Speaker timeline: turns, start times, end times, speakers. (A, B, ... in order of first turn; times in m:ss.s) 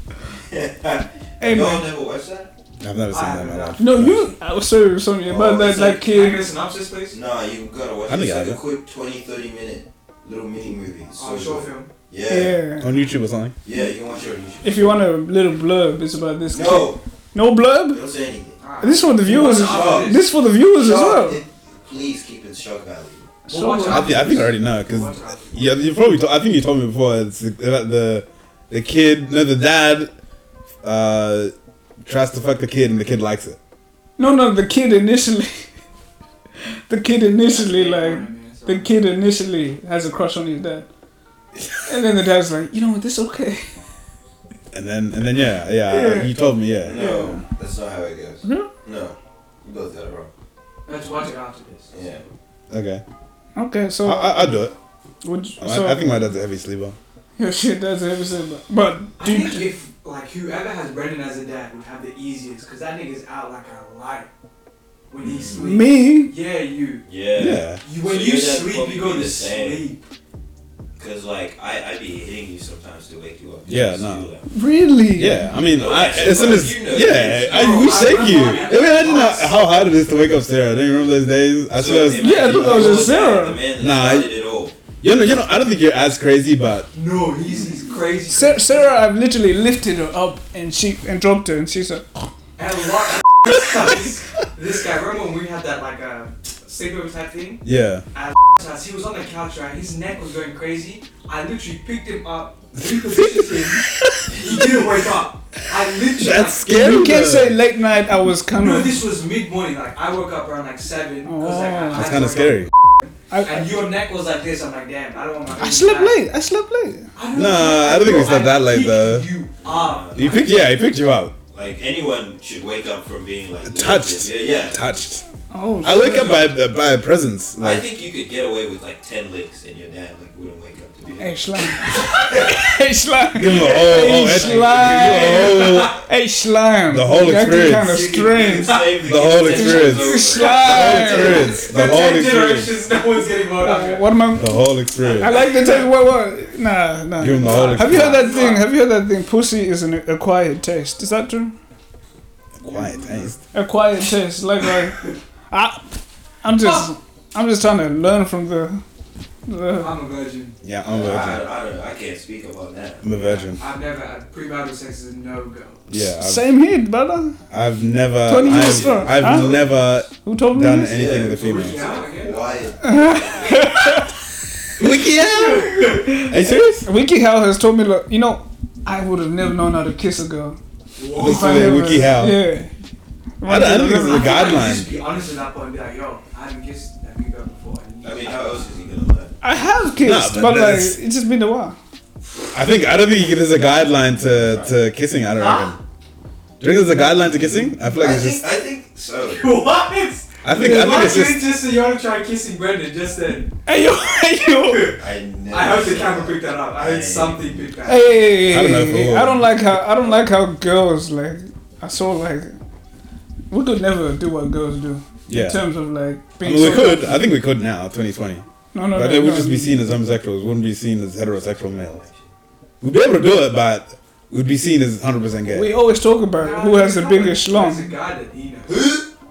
0:00.5-0:02.5 A
0:01.4-0:01.9 B
0:02.8-0:04.4 C
0:03.1-0:03.9 D
0:03.8-0:06.5 B
0:05.2-0:06.0 A
0:05.7-0:07.2 D
0:07.1-0:12.6 A
0:08.1-0:08.6 C
0:11.2-0:11.9 D
0:12.3-0:13.0 B
0:12.8-0:13.6 C
0:13.6-0:15.1 A
0:14.6-0:18.0 B
0:16.5-0:17.0 A
0:17.9-0:18.6 A
0:18.6-0:20.3 D
0:18.8-0:21.4 B
0:19.3-0:20.2 A
0:20.8-0:23.3 A
0:23.5-0:24.4 B
0:23.5-0:25.8 D
0:23.9-0:30.1 C
0:30.8-0:31.5 C
0:32.0-0:33.6 C
0:34.2-0:35.6 B
0:36.6-0:40.9 B
0:37.5-0:39.0 D
0:41.9-0:43.7 B
0:44.7-0:47.3 C
0:45.8-0:46.4 B
0:46.8-0:50.3 A
0:47.0-0:47.4 B
0:48.4-0:48.7 B
0:50.9-0:52.0 D
0:51.9-0:52.2 A
0:52.7-0:53.0 C
0:53.6-0:54.6 B
0:54.0-0:54.8 C
0:55.2-0:56.1 B
0:55.6-0:57.0 C
0:57.4-0:59.7 B
0:59.2-1:04.3 D
1:05.1-1:07.1 D
1:05.5-1:06.3 B
1:07.1-1:09.8 A
1:07.4-1:07.8 C
1:07.7-1:10.0 D
1:11.0-1:14.5 A
1:13.7-1:14.3 C
1:14.5-1:15.6 B
1:15.2-1:23.1 C
1:15.7-1:18.9 A
1:17.0-1:19.6 D
1:21.7-1:24.8 A
1:22.2-1:23.6 B
1:23.8-1:24.3 C
1:25.0-1:26.9 C
1:26.9-1:29.0 D
1:28.3-1:32.3 B
1:32.6-1:46.9 D
1:37.6-1:38.0 C
1:42.8-1:44.6 C
1:46.1-1:47.6 C
1:46.7-1:49.0 B
1:48.6-1:56.2 D
1:51.2-1:52.2 B
1:51.9-1:52.7 C
1:53.3-1:53.7 B
1:55.6-1:57.1 B
1:57.2-2:00.6 D
1:57.3-1:59.3 C
1:59.6-2:00.4 A
2:00.2-2:01.4 C
2:01.5-2:04.8 A
2:03.6-2:05.2 C
2:05.5-2:06.5 B
2:05.8-2:07.8 C
2:07.6-2:12.6 A
2:11.2-2:18.9 B
2:13.3-2:16.0 C
2:13.5-2:14.1 D
2:14.1-2:14.5 A
2:14.8-2:16.0 D
2:16.9-2:18.0 C
2:17.6-2:21.7 A
2:19.0-2:22.7 C
2:19.4-2:21.6 B
2:20.2-2:24.0 D
2:23.6-2:31.5 B
2:24.4-2:25.3 C
2:25.0-2:25.9 D
2:27.2-2:28.3 C
2:27.3-2:28.6 D
2:32.6-2:33.4 C
2:32.6-2:33.4 D
2:33.5-2:35.8 B
2:36.4-2:38.8 B
2:36.6-2:36.9 D
2:39.5-2:39.9 B
2:39.8-2:40.6 D
2:40.6-2:41.5 C
2:40.8-2:43.5 A
2:43.0-2:43.6 C
2:43.1-2:45.8 D
2:45.9-2:46.4 C
2:46.2-2:47.4 B
2:47.5-2:51.9 C
2:48.2-2:49.7 B
2:48.4-2:49.8 A
2:50.2-2:51.2 B
2:50.9-2:53.8 A
2:51.1-2:52.4 D
2:52.8-2:54.1 B
2:54.8-2:56.9 C
2:54.8-2:56.1 D
2:56.8-3:00.6 B
3:01.0-3:02.2 D
3:01.1-3:02.7 B
3:01.2-3:02.4 C
3:03.4-3:04.8 B
3:03.4-3:04.9 C
3:04.0-3:08.7 D
3:08.0-3:09.4 A
3:09.4-3:11.8 B
3:10.0-3:11.0 C
3:12.5-3:15.8 C
3:14.4-3:14.7 A
3:15.3-3:15.8 D
3:16.6-3:18.4 C
3:17.9-3:19.5 A
3:19.3-3:23.5 D
3:20.4-3:21.4 C
3:20.5-3:21.1 B
3:23.7-3:25.0 B
3:24.7-3:28.1 D
3:25.0-3:27.7 A
3:27.8-3:32.5 B
3:28.5-3:29.6 C
3:33.5-3:37.2 B
3:35.3-3:35.6 C
3:36.4-3:42.0 C
3:38.7-3:39.9 B
3:41.4-3:42.3 A
3:42.8-3:45.7 C
3:45.5-3:47.9 B
3:46.3-3:48.9 D
3:48.7-3:49.1 A